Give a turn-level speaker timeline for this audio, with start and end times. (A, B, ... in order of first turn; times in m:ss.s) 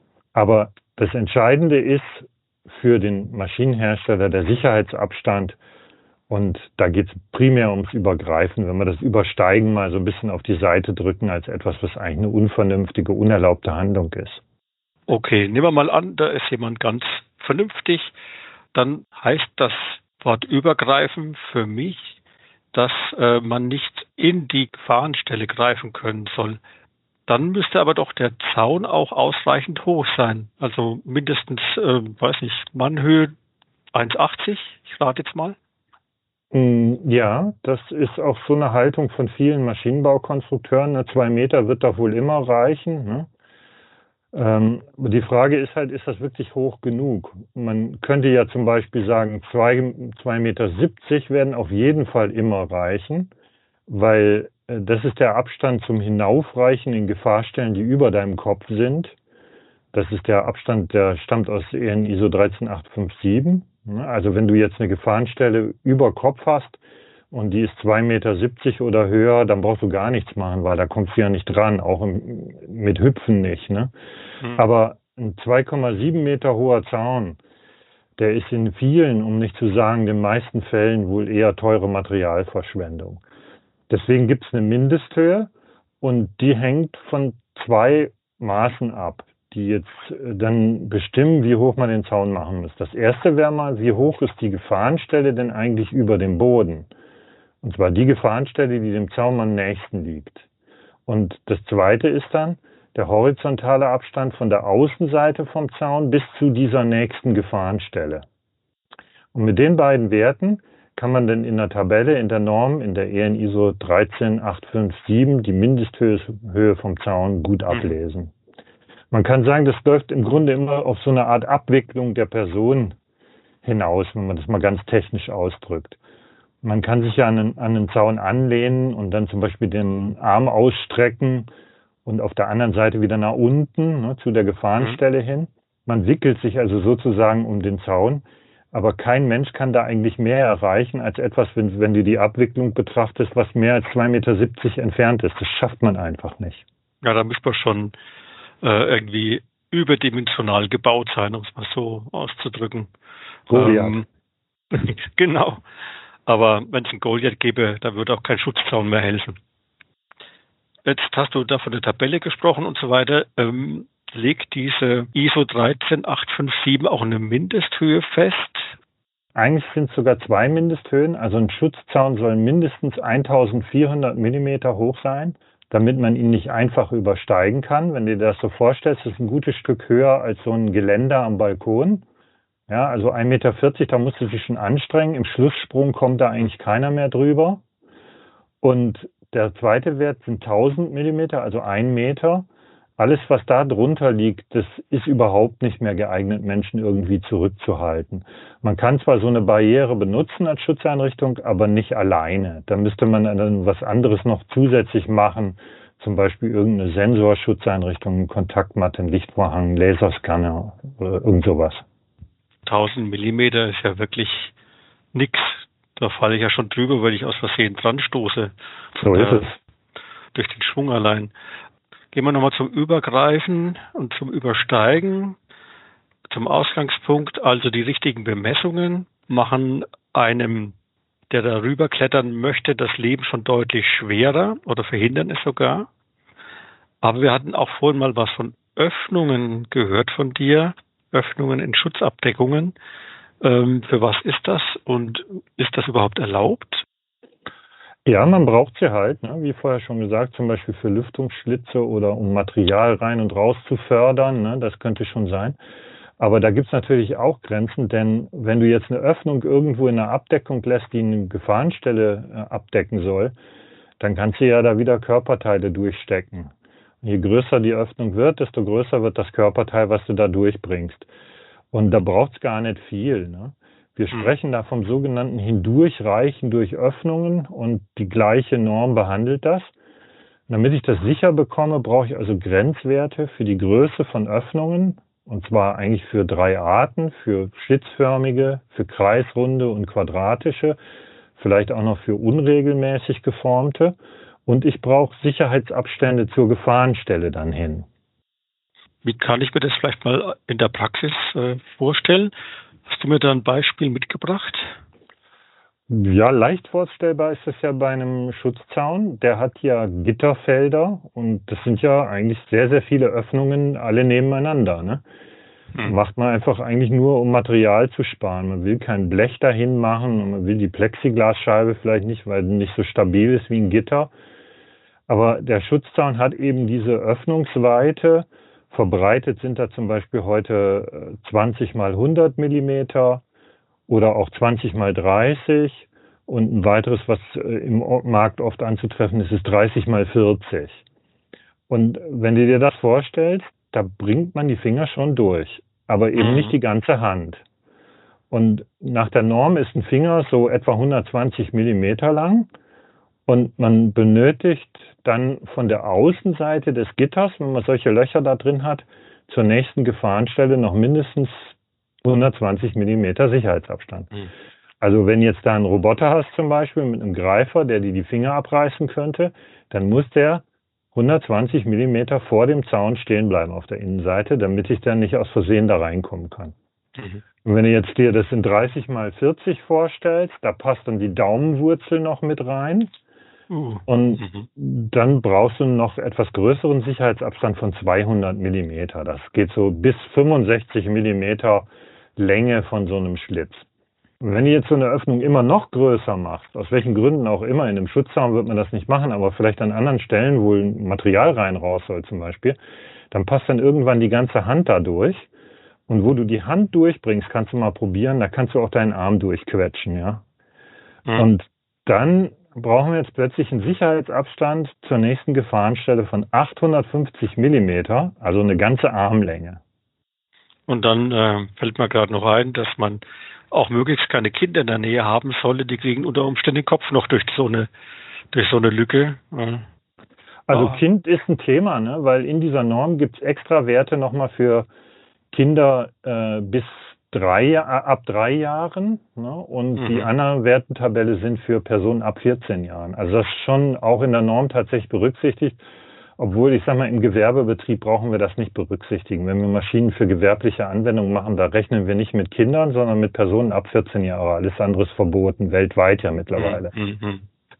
0:00.3-0:05.6 A
0:06.3-0:14.4 A
0:15.1-0:18.1 B
0:18.7-0:22.2 B
0:22.7-0:26.6 B
0:27.3-0:33.3 B
0:33.9-0:35.6 B
0:36.5-0:43.3 A
0:44.3-0:53.3 A
0:53.9-0:59.1 A
0:59.9-1:06.8 A
1:07.3-1:13.9 A
1:14.5-1:17.4 A
1:18.2-1:23.2 A
1:23.9-1:25.5 A
1:26.0-1:36.9 A
1:37.6-1:40.4 A
1:41.1-1:48.2 A
1:49.3-1:58.3 A
1:59.1-2:03.0 A
2:03.6-2:06.0 A
2:06.6-2:11.5 A
2:12.0-2:26.6 A
2:27.0-2:27.9 B
2:28.6-2:32.9 B
2:33.5-2:34.0 A
2:33.5-2:34.0 B
2:34.7-2:35.6 B
2:36.3-2:39.4 B
2:40.8-2:48.7 B
2:49.3-3:02.0 A
3:02.7-3:07.6 A
3:08.6-3:12.5 A
3:13.0-3:31.8 A
3:32.6-3:34.5 B
3:35.1-3:39.5 B
3:39.0-3:39.6 A
3:40.3-3:41.3 B
3:42.1-3:45.4 B
3:46.3-3:50.7 B
3:51.3-3:55.9 B
3:57.0-4:02.7 B
4:03.4-4:06.8 B
4:08.0-4:15.6 A
4:16.2-4:23.3 A
4:24.0-4:26.5 A
4:27.0-4:31.1 A
4:31.7-4:39.7 A
4:40.5-4:50.8 A
4:51.4-4:57.8 A
4:59.0-5:02.3 B
5:02.8-5:04.8 B
5:05.9-5:15.0 A
5:15.8-5:24.1 A
5:25.1-5:33.2 A
5:33.9-5:40.8 A
5:41.7-5:47.4 A
5:46.2-5:46.6 B
5:48.3-5:52.5 A
5:53.3-6:04.1 A
6:04.8-6:16.5 A
6:17.0-6:17.2 B
6:17.4-6:22.9 A
6:23.5-6:24.5 B
6:23.9-6:33.6 A
6:34.2-6:42.6 A
6:43.1-6:45.3 A
6:45.9-6:50.2 A
6:51.1-6:59.6 A
7:00.7-7:07.7 B
7:08.3-7:09.6 B
7:10.5-7:14.7 A
7:10.5-7:10.8 B
7:15.3-7:25.6 A
7:19.8-7:20.1 B
7:26.2-7:36.7 A
7:36.3-7:37.2 B